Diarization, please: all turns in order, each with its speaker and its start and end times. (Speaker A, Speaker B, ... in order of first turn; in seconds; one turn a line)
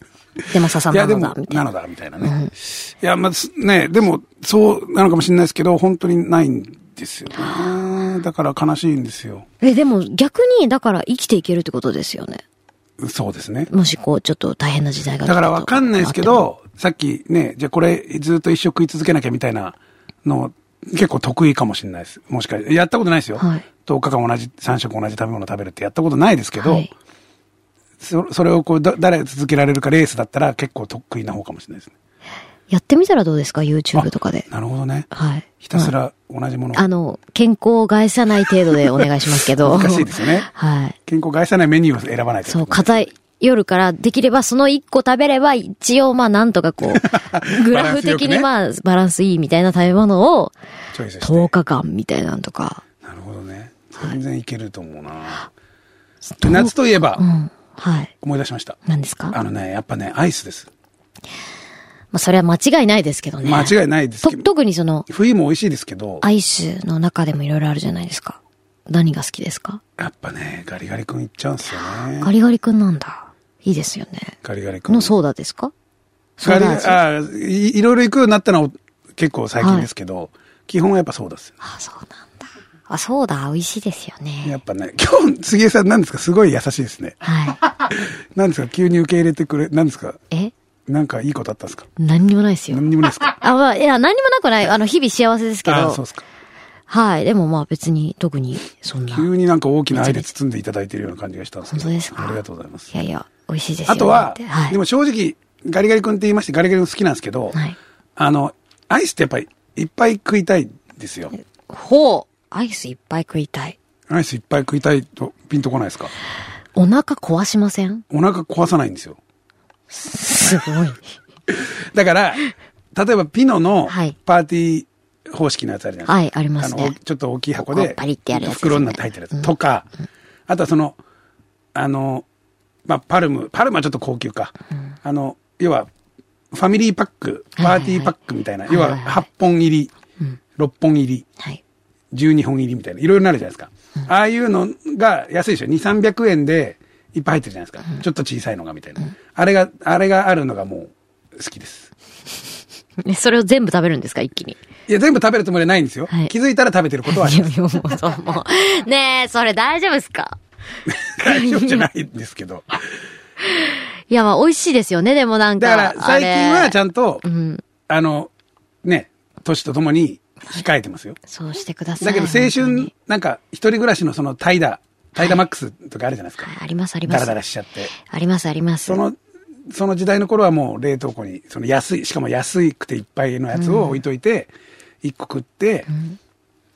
Speaker A: 0.5-1.6
Speaker B: 0.9-9.4
Speaker A: 2.2-2.5
Speaker A: 9.6-12.4
Speaker B: 13.0-13.7
Speaker A: 13.7-16.4
Speaker B: 15.2-26.9
Speaker A: 23.4-23.6
Speaker A: 26.6-26.9
Speaker B: 28.0-31.9
Speaker A: 32.7-34.5
Speaker B: 33.9-35.1
Speaker A: 35.1-35.9
Speaker B: 35.6-36.8
Speaker A: 36.7-41.0
Speaker B: 39.6-40.5
Speaker B: 41.0-43.1
Speaker A: 42.5-50.5
Speaker B: 46.9-48.5
Speaker B: 50.9-51.5
Speaker A: 51.2-52.8
Speaker B: 53.0-55.5
Speaker A: 56.2-58.1
Speaker B: 56.4-57.2
Speaker B: 58.2-58.8
Speaker A: 58.9-59.4
Speaker B: 59.3-60.7
Speaker A: 62.1-65.0
Speaker B: 63.4-64.5
Speaker B: 65.1-66.2
Speaker A: 66.2-69.8
Speaker B: 70.0-72.3
Speaker A: 71.7-74.3
Speaker B: 74.4-75.1
Speaker A: 74.9-75.7
Speaker A: 76.4-77.0
Speaker B: 76.4-81.5
Speaker A: 79.6-79.9
Speaker A: 81.6-84.5
Speaker B: 84.4-87.2
Speaker A: 87.2-87.6
Speaker B: 87.9-90.2
Speaker B: 90.9-91.9
Speaker A: 92.0-96.0
Speaker B: 92.7-93.3
Speaker B: 95.7-96.2
Speaker A: 96.9-99.3
Speaker B: 99.1-102.9
Speaker A: 99.9-100.3
Speaker A: 101.7-102.4
Speaker A: 102.9-104.8
Speaker B: 103.9-107.6
Speaker B: 108.2-111.3
Speaker A: 111.7-113.8
Speaker B: 114.1-116.1
Speaker A: 116.8-118.0
Speaker B: 118.1-119.2
Speaker A: 119.9-121.1
Speaker B: 121.5-122.4
Speaker B: 122.9-129.9
Speaker A: 123.9-124.2
Speaker A: 126.1-126.9
Speaker A: 127.6-129.5
Speaker B: 130.5-131.0
Speaker B: 131.8-132.2
Speaker B: 132.8-135.9
Speaker B: 136.5-139.9
Speaker A: 137.6-138.1
Speaker A: 138.7-139.2
Speaker B: 140.6-141.3
Speaker B: 142.1-151.9
Speaker A: 153.0-154.6
Speaker B: 154.9-157.6
Speaker A: 157.1-160.4
Speaker B: 160.9-162.8
Speaker A: 161.2-161.8
Speaker A: 163.5-167.6
Speaker B: 165.6-167.2
Speaker B: 167.9-168.3
Speaker B: 168.8-171.2
Speaker A: 171.3-172.9
Speaker B: 172.0-176.5
Speaker A: 176.4-177.4
Speaker B: 177.1-177.9
Speaker A: 177.9-179.0
Speaker B: 178.8-179.2
Speaker B: 179.7-184.5
Speaker A: 183.5-184.0
Speaker B: 185.0-185.9
Speaker A: 185.9-186.2